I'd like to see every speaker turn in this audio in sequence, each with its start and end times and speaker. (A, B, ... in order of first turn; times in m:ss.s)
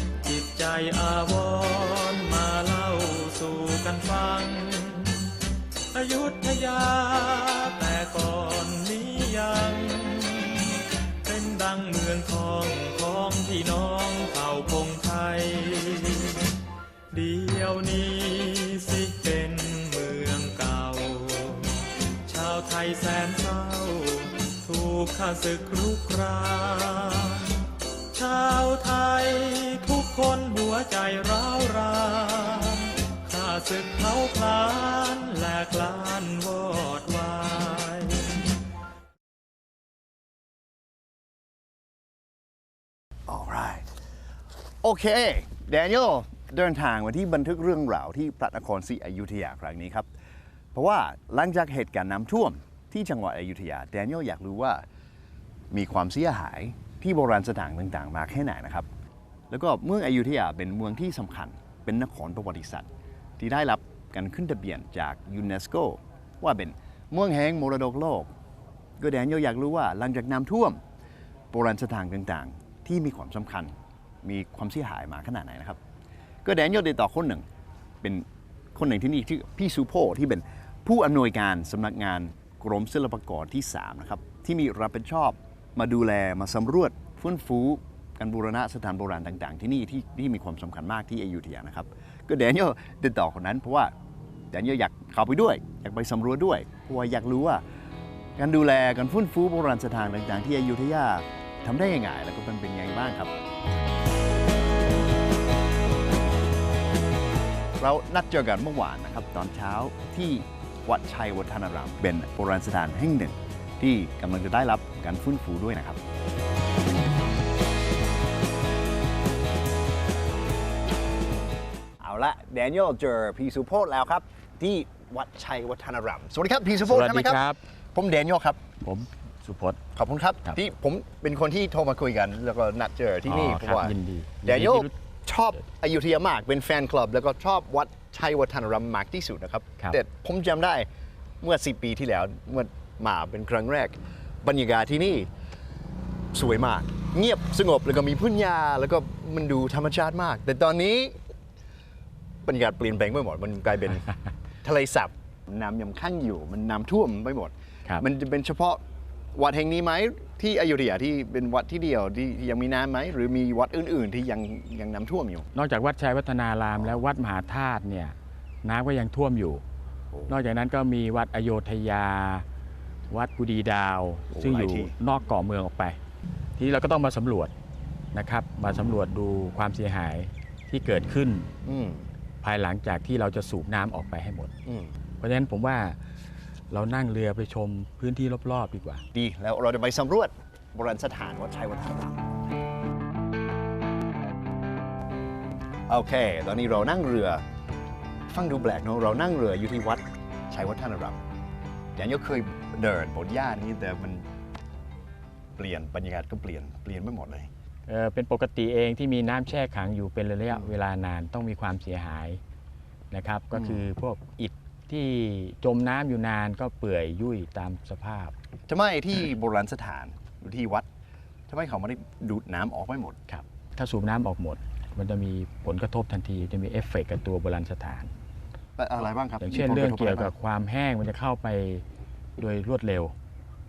0:00.2-0:05.2 A
0:05.9-0:16.4 A
0:17.1-0:27.5 A
0:28.1-0:38.2 A
0:43.3-0:43.9 B
0:44.8-0:50.1 B
0:50.7-0:54.8 B
0:55.7-0:58.9 B
0:59.5-1:08.3 B
1:09.0-1:10.8 B
1:11.5-1:15.8 B
1:16.4-1:17.4 B
1:18.0-1:33.9 B
1:34.5-1:37.6 B
1:38.4-1:43.3 B
1:47.8-1:56.0 B
2:02.0-2:08.6 B
2:06.8-2:07.6 C
2:08.8-2:09.8 C
2:09.9-2:20.9 B
2:13.2-2:14.9 C
2:21.4-2:25.3 B
2:26.3-2:31.2 B
2:32.4-2:34.1 B
2:34.6-2:38.8 B
2:39.3-2:45.5 B
2:45.5-2:49.6 C
2:50.3-2:52.4 C
2:53.1-2:56.0 C
2:54.3-2:54.9 B
2:56.6-2:57.5 C
2:58.1-3:01.5 C
3:01.6-3:02.0 B
3:02.4-3:04.5 C
3:04.6-3:04.9 B
3:05.2-3:06.0 C
3:06.7-3:09.0 C
3:09.1-3:12.2 B
3:15.9-3:17.4 B
3:18.3-3:21.2 B
3:22.0-3:24.2 B
3:25.6-3:27.5 B
3:27.9-3:32.4 C
3:33.1-3:38.3 C
3:33.5-3:33.9 B
3:38.7-3:40.9 B
3:41.5-3:43.2 B
3:43.3-3:48.1 C
3:48.8-3:50.3 B
3:49.4-3:51.8 C
3:52.4-3:53.1 C